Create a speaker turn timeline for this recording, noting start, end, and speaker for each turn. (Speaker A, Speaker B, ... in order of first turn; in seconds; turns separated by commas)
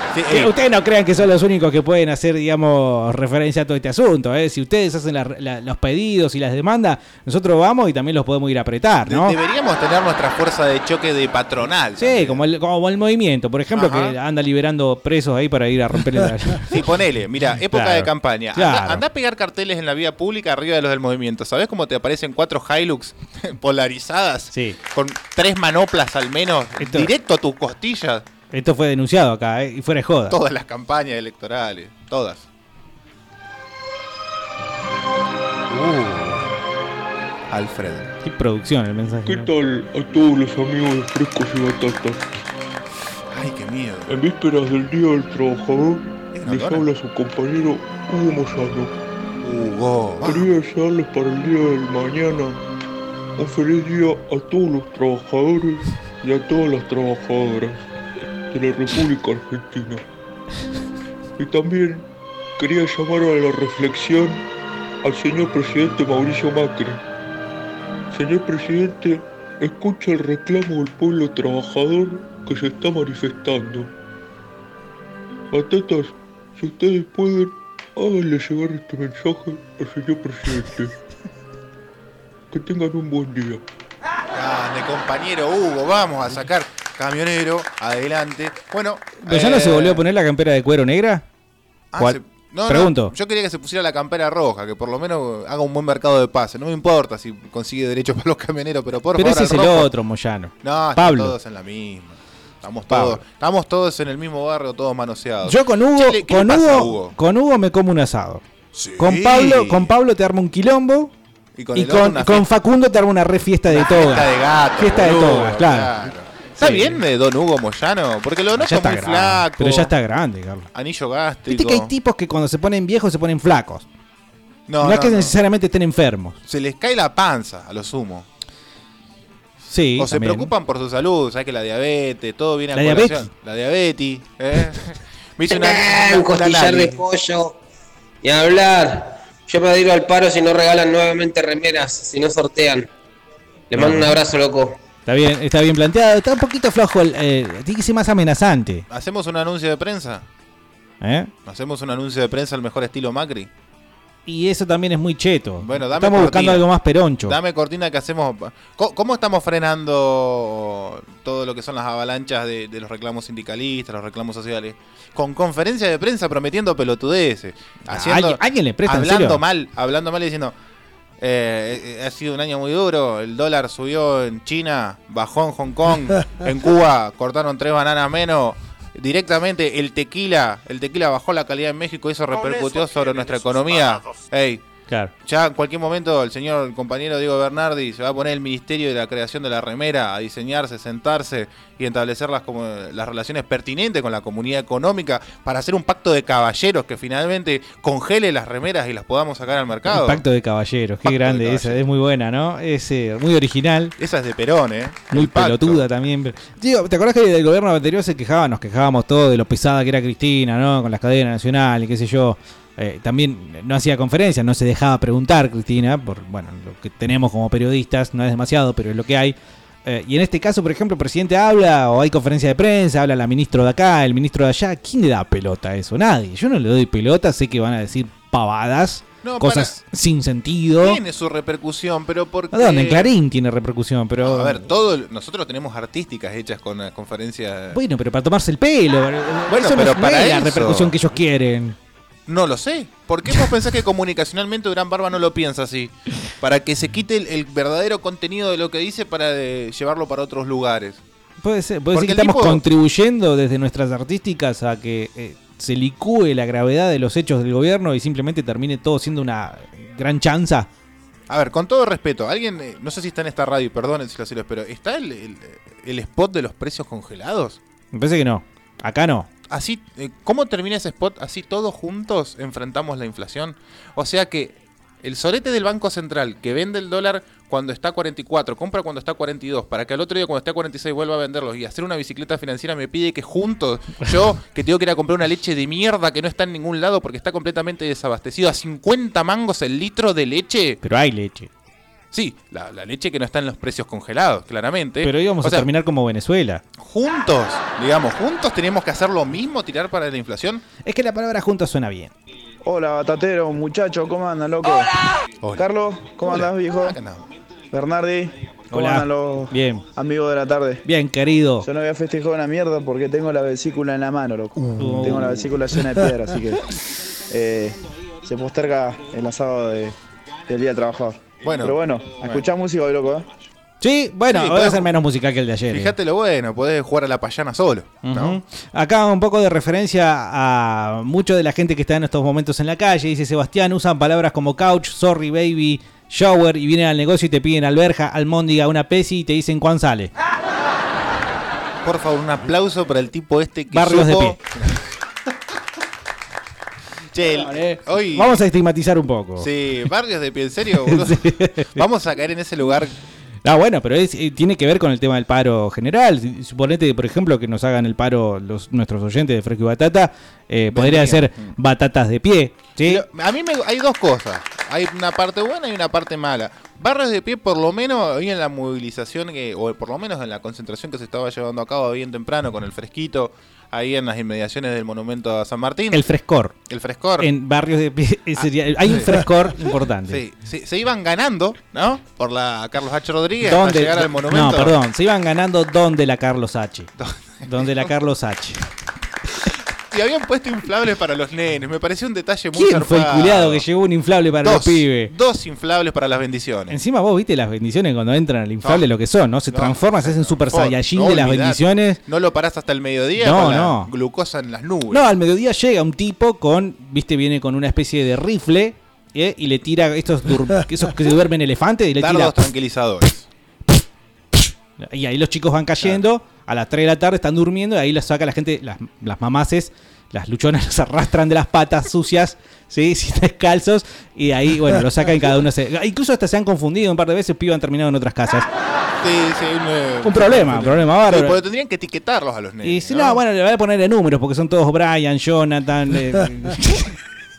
Speaker A: 0.1-0.5, Speaker B: 0.3-9.4, Speaker A: 9.1-12.4, Speaker B: 12.0-16.8, Speaker A: 13.7-14.2, Speaker A: 16.7-28.2, Speaker B: 17.7-19.0, Speaker B: 26.8-27.1, Speaker B: 28.5-30.4, Speaker A: 30.3-32.5, Speaker A: 35.7-36.5, Speaker A: 37.5-38.1, Speaker B: 38.2-39.5, Speaker C: 39.2-42.3, Speaker A: 43.3-44.1, Speaker C: 44.1-48.9, Speaker A: 46.3-46.8, Speaker A: 49.4-50.5, Speaker C: 50.2-52.6, Speaker C: 53.4-57.8, Speaker C: 58.5-60.0, Speaker C: 61.4-62.1, Speaker C: 62.6-64.5, Speaker C: 65.0-67.0, Speaker C: 68.1-73.9, Speaker C: 75.5-81.0, Speaker C: 82.5-83.6, Speaker A: 84.3-90.0, Speaker B: 89.2-91.2, Speaker A: 91.9-99.9, Speaker B: 92.0-93.1, Speaker B: 99.2-101.3, Speaker A: 100.6-107.2, Speaker B: 102.9-103.2, Speaker B: 105.4-108.4, Speaker A: 108.7-109.9, Speaker B: 109.0-111.1, Speaker A: 111.5-112.5, Speaker B: 111.8-115.9, Speaker A: 113.7-119.9, Speaker B: 116.6-117.0, Speaker B: 118.6-120.7, Speaker A: 120.7-121.9, Speaker B: 121.5-123.9, Speaker A: 124.7-125.3, Speaker B: 124.8-126.4, Speaker A: 126.5-128.3, Speaker B: 129.7-130.5, Speaker A: 130.0-137.0, Speaker B: 132.7-133.3, Speaker D: 135.5-137.6, Speaker D: 138.2-142.9, Speaker D: 143.7-144.8, Speaker B: 143.8-144.2, Speaker B: 145.1-148.9, Speaker A: 148.9-150.3, Speaker B: 151.0-151.3, Speaker A: 151.5-153.5, Speaker B: 154.3-157.4, Speaker A: 155.6-156.7, Speaker A: 157.2-170.6, Speaker B: 167.9-169.4, Speaker A: 171.2-184.6, Speaker A: 185.2-200.2, Speaker B: 199.9-203.9, Speaker A: 201.1-201.8, Speaker A: 204.0-205.8, Speaker B: 205.1-231.0, Speaker A: 229.2-229.8, Speaker A: 230.8-233.1, Speaker B: 232.5-234.7, Speaker A: 234.2-237.8, Speaker B: 237.7-241.8, Speaker A: 239.5-240.9, Speaker A: 242.3-251.0, Speaker B: 251.4-260.7, Speaker A: 251.9-252.6, Speaker A: 261.3-267.6, Speaker B: 267.9-269.3, Speaker A: 269.5-290.8, Speaker B: 290.8-291.5, Speaker A: 292.1-295.7, Speaker B: 295.0-296.6, Speaker A: 296.8-300.6, Speaker B: 300.8-302.1, Speaker E: 302.6-304.9, Speaker E: 305.6-307.0, Speaker A: 306.2-307.3, Speaker E: 307.7-310.8, Speaker B: 308.7-309.9, Speaker B: 310.9-311.7, Speaker E: 311.6-316.7, Speaker B: 314.8-315.5, Speaker E: 317.3-319.9, Speaker E: 320.5-323.3, Speaker A: 321.4-322.4, Speaker B: 323.8-325.9, Speaker A: 324.3-324.9, Speaker A: 325.7-328.4, Speaker B: 328.0-340.1, Speaker A: 341.8-344.8, Speaker B: 343.7-344.4, Speaker A: 347.1-348.4, Speaker B: 347.4-349.5, Speaker A: 349.4-352.9, Speaker B: 350.8-351.8, Speaker B: 353.4-363.0, Speaker A: 360.7-361.6, Speaker A: 362.8-376.1, Speaker B: 375.9-376.6, Speaker A: 376.7-377.3, Speaker B: 377.2-380.2, Speaker A: 378.4-379.2, Speaker A: 380.1-384.8, Speaker B: 383.4-386.9, Speaker A: 387.0-387.9, Speaker B: 387.4-388.7, Speaker A: 389.9-393.6, Speaker B: 392.6-395.1, Speaker A: 394.4-396.8, Speaker B: 396.7-402.0, Speaker A: 399.5-405.1, Speaker B: 403.2-403.9, Speaker B: 404.9-412.4, Speaker A: 412.0-413.3, Speaker B: 414.8-428.5, Speaker A: 429.0-433.2, Speaker B: 430.0-431.4, Speaker B: 432.6-436.9